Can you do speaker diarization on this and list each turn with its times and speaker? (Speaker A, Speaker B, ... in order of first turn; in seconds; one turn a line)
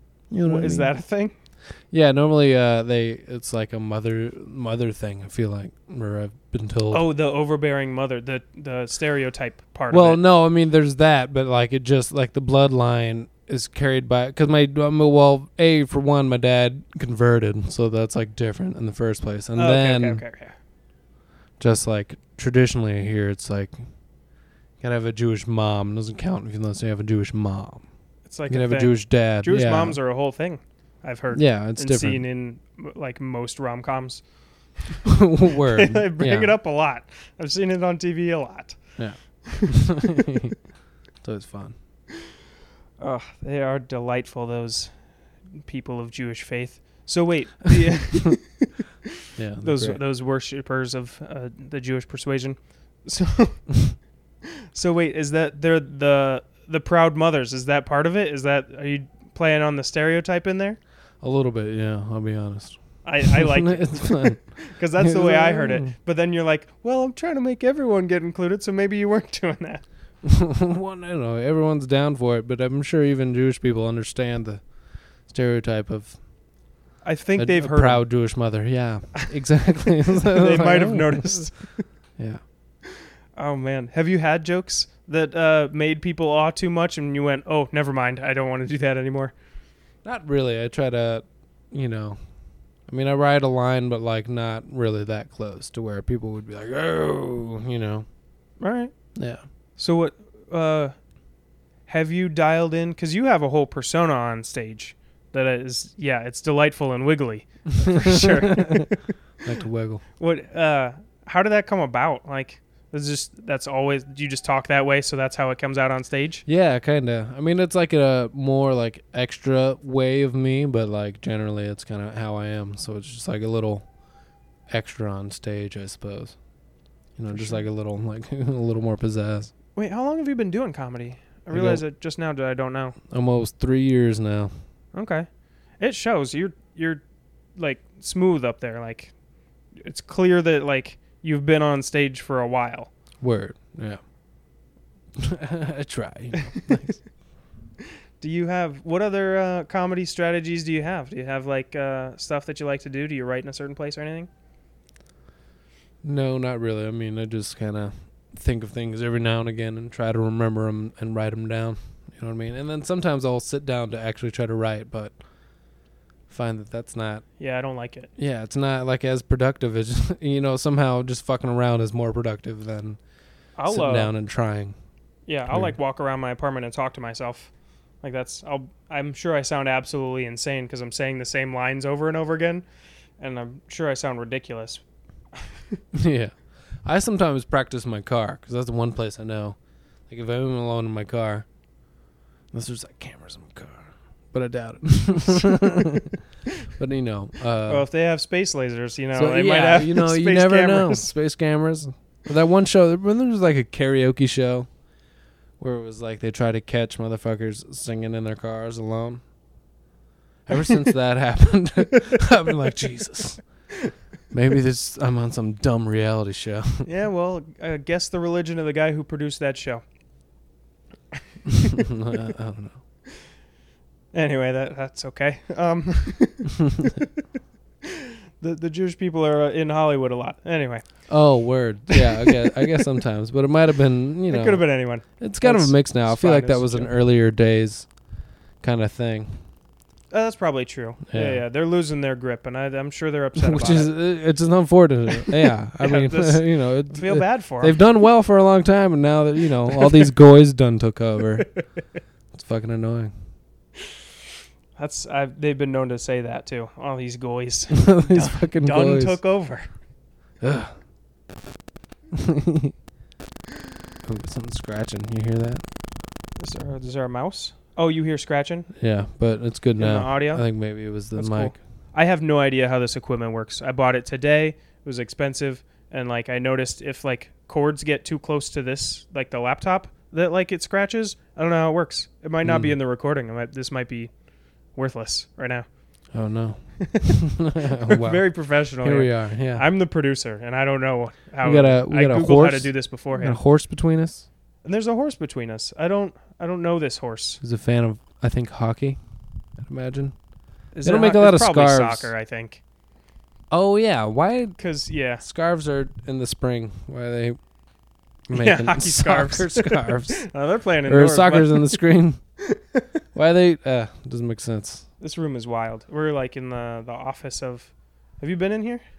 Speaker A: 0.3-1.0
Speaker B: 0.5-1.3
Speaker A: 1.9-7.0
Speaker B: 6.9-10.2
Speaker A: 9.9-20.2
Speaker B: 19.6-20.6
Speaker A: 21.6-23.8
Speaker A: 24.8-27.9
Speaker B: 28.2-34.2
Speaker A: 28.5-30.0
Speaker A: 31.3-32.2
Speaker A: 35.1-36.6
Speaker B: 35.8-39.0
Speaker A: 39.0-40.5
Speaker A: 41.2-41.8
Speaker B: 43.0-48.7
Speaker A: 49.4-50.0
Speaker B: 49.6-54.0
Speaker B: 54.7-60.8
Speaker A: 61.2-64.4
Speaker B: 63.0-69.8
Speaker A: 65.0-65.9
Speaker A: 70.2-76.2
Speaker B: 77.0-78.2
Speaker A: 77.4-81.6
Speaker B: 80.4-81.9
Speaker A: 82.2-82.4
Speaker B: 83.4-89.3
Speaker A: 90.0-92.2
Speaker A: 92.9-98.1
Speaker B: 98.6-98.9
Speaker A: 99.2-99.4
Speaker B: 99.8-100.9
Speaker B: 101.9-109.1
Speaker A: 108.2-108.8
Speaker A: 109.4-110.0
Speaker B: 110.2-116.5
Speaker A: 116.5-123.9
Speaker A: 124.7-126.4
Speaker A: 127.2-129.5
Speaker B: 127.3-127.7
Speaker B: 129.8-133.0
Speaker A: 131.5-131.8
Speaker A: 133.1-134.5
Speaker B: 134.9-135.3
Speaker B: 135.8-137.0
Speaker B: 137.6-139.1
Speaker B: 139.8-142.9
Speaker A: 143.2-144.0
Speaker A: 145.2-147.0
Speaker B: 148.2-154.3
Speaker A: 156.0-165.2
Speaker A: 166.3-167.3
Speaker B: 167.4-168.1
Speaker A: 168.2-173.0
Speaker B: 173.6-174.1
Speaker A: 173.7-174.8
Speaker B: 175.3-177.5
Speaker B: 178.0-182.7
Speaker B: 183.2-184.8
Speaker A: 185.9-191.5
Speaker A: 192.5-196.1
Speaker A: 196.7-197.9
Speaker B: 197.7-201.1
Speaker A: 199.2-204.7
Speaker A: 205.6-209.2
Speaker A: 210.5-213.5
Speaker A: 214.3-216.9
Speaker B: 216.9-219.8
Speaker A: 221.8-222.8
Speaker B: 224.1-227.1
Speaker B: 228.4-232.7
Speaker A: 231.1-239.4
Speaker B: 234.3-236.9
Speaker B: 240.1-243.9
Speaker A: 241.1-241.4
Speaker A: 243.4-251.5
Speaker B: 245.1-247.8
Speaker A: 252.3-253.1
Speaker B: 254.8-259.7
Speaker A: 257.7-259.2
Speaker A: 260.4-260.8
Speaker A: 262.1-262.7
Speaker A: 264.1-265.6
Speaker B: 266.4-268.7
Speaker A: 268.8-271.6
Speaker B: 269.8-284.1
Speaker A: 282.4-282.8
Speaker B: 284.7-285.7
Speaker A: 286.1-289.7
Speaker B: 286.8-287.2
Speaker B: 287.9-293.4
Speaker A: 291.4-294.3
Speaker B: 294.6-297.4
Speaker A: 297.4-299.0
Speaker A: 299.6-300.2
Speaker A: 300.7-302.1
Speaker B: 300.7-302.6
Speaker A: 303.5-307.5
Speaker B: 304.6-305.2
Speaker A: 308.3-310.3
Speaker B: 308.3-311.8
Speaker A: 310.9-312.2
Speaker A: 313.1-314.9
Speaker B: 315.0-318.8